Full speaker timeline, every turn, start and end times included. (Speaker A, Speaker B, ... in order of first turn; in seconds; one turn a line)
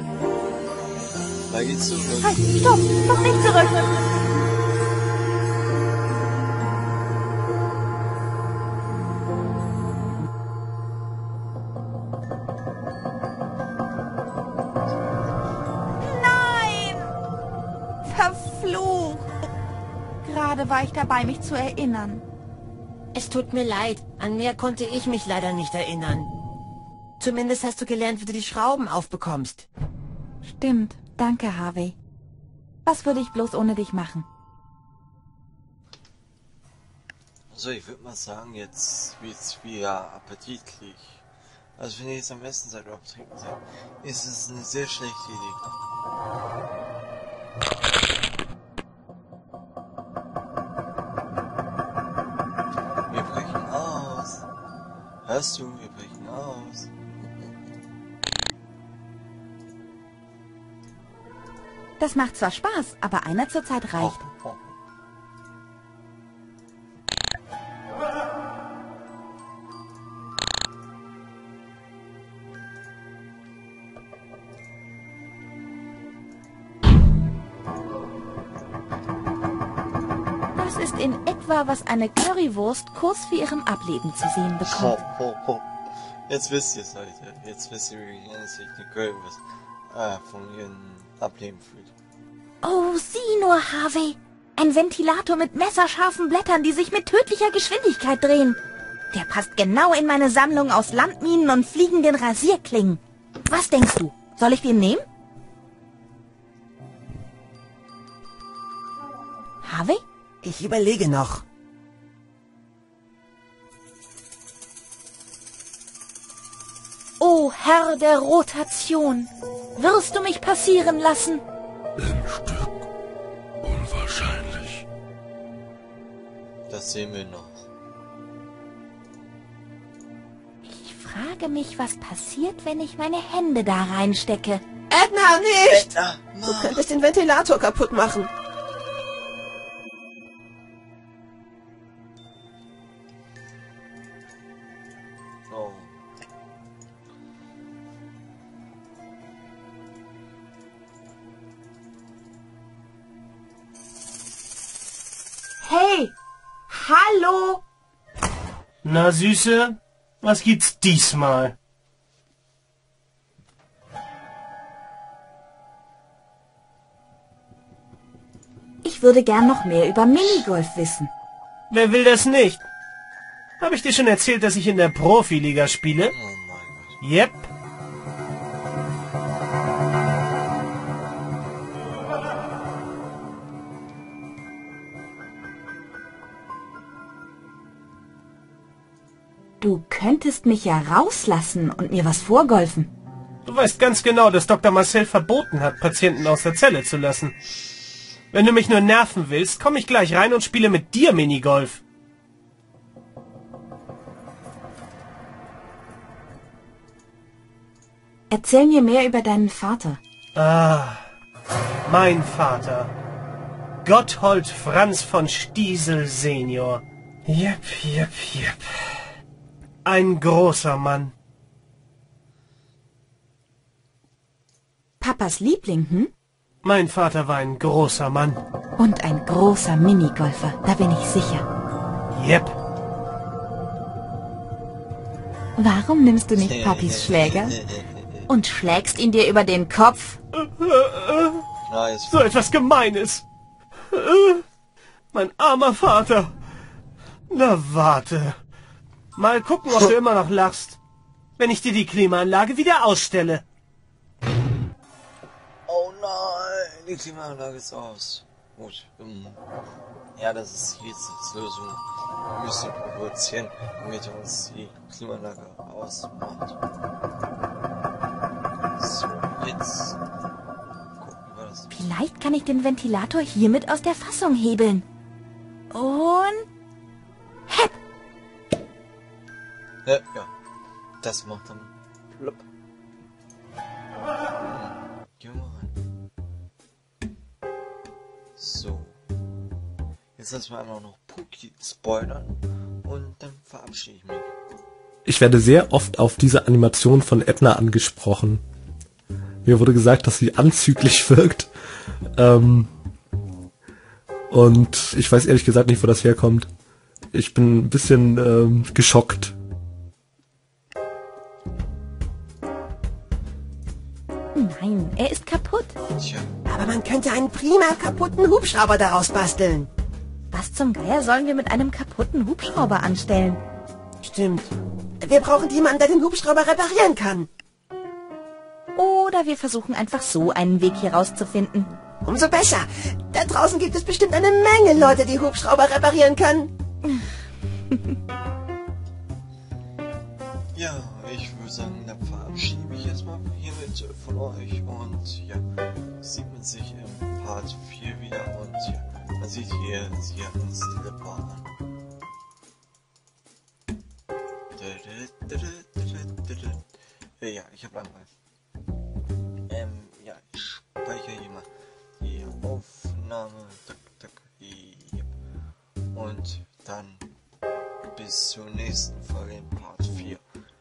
Speaker A: 1.5-2.4
Speaker B: 2.2-4.0
Speaker B: 16.0-17.1
Speaker B: 18.0-19.3
Speaker B: 20.2-22.2
Speaker C: 23.1-26.3
Speaker C: 27.2-29.7
Speaker B: 30.4-32.0
Speaker B: 32.8-34.3
Speaker A: 37.5-41.2
Speaker A: 41.8-45.6
Speaker A: 53.1-54.5
Speaker A: 55.2-56.9
Speaker B: 62.0-64.2
Speaker A: 64.0-64.6
Speaker B: 80.6-85.0
Speaker A: 84.6-85.7
Speaker A: 86.3-91.9
Speaker B: 92.6-98.6
Speaker B: 99.1-105.0
Speaker B: 109.6-110.0
Speaker C: 110.4-111.5
Speaker B: 117.2-121.4
Speaker A: 126.7-127.6
Speaker B: 130.7-134.6
Speaker C: 134.9-135.9
Speaker A: 135.6-136.9
Speaker C: 136.4-138.3
Speaker A: 145.5-145.9
Speaker B: 155.6-156.1
Speaker B: 156.7-157.6
Speaker D: 158.8-161.5
Speaker B: 168.8-171.1
Speaker D: 171.7-172.6
Speaker D: 173.6-176.1
Speaker A: 176.1-177.0
Speaker D: 177.0-177.5
Speaker B: 189.6-192.9
Speaker D: 193.4-197.4
Speaker D: 198.3-201.8
Speaker B: 208.3-210.0
Speaker D: 210.3-211.0
Speaker D: 211.8-212.9
Speaker D: 213.8-219.1
Speaker D: 219.8-221.1
Speaker B: 225.0-226.1
Speaker D: 226.6-228.4
Speaker B: 228.8-231.4
Speaker D: 232.2-232.5
Speaker B: 235.6-237.6
Speaker A: 236.3-238.2
Speaker B: 238.3-240.2
Speaker D: 240.3-241.4
Speaker A: 241.7-242.4
Speaker D: 242.1-243.2
Speaker D: 243.9-244.4
Speaker D: 245.1-246.3
Speaker D: 247.3-248.4
Speaker D: 249.2-250.8
Speaker D: 251.4-253.4
Speaker A: 255.7-259.4
Speaker A: 260.1-266.6
Speaker A: 268.8-270.0
Speaker A: 271.0-271.7
Speaker B: 271.7-274.8
Speaker B: 275.7-276.4
Speaker B: 277.5-277.8
Speaker A: 279.8-280.3
Speaker A: 281.0-282.4
Speaker A: 284.4-285.7
Speaker A: 288.4-289.0
Speaker A: 290.2-294.3
Speaker E: 295.1-298.4
Speaker E: 299.4-301.5
Speaker E: 302.2-302.7
Speaker E: 304.3-306.5
Speaker E: 307.1-309.4
Speaker B: 314.3-315.7
Speaker A: 316.0-316.3
Speaker C: 316.5-319.7
Speaker B: 320.3-323.4
Speaker C: 324.0-327.3
Speaker B: 328.7-331.7
Speaker C: 332.0-336.5
Speaker A: 340.5-345.4
Speaker A: 346.0-351.5
Speaker A: 354.5-356.6
Speaker A: 357.2-358.1
Speaker A: 359.5-361.5
Speaker A: 362.0-365.1
Speaker A: 365.9-367.1
Speaker A: 367.8-370.2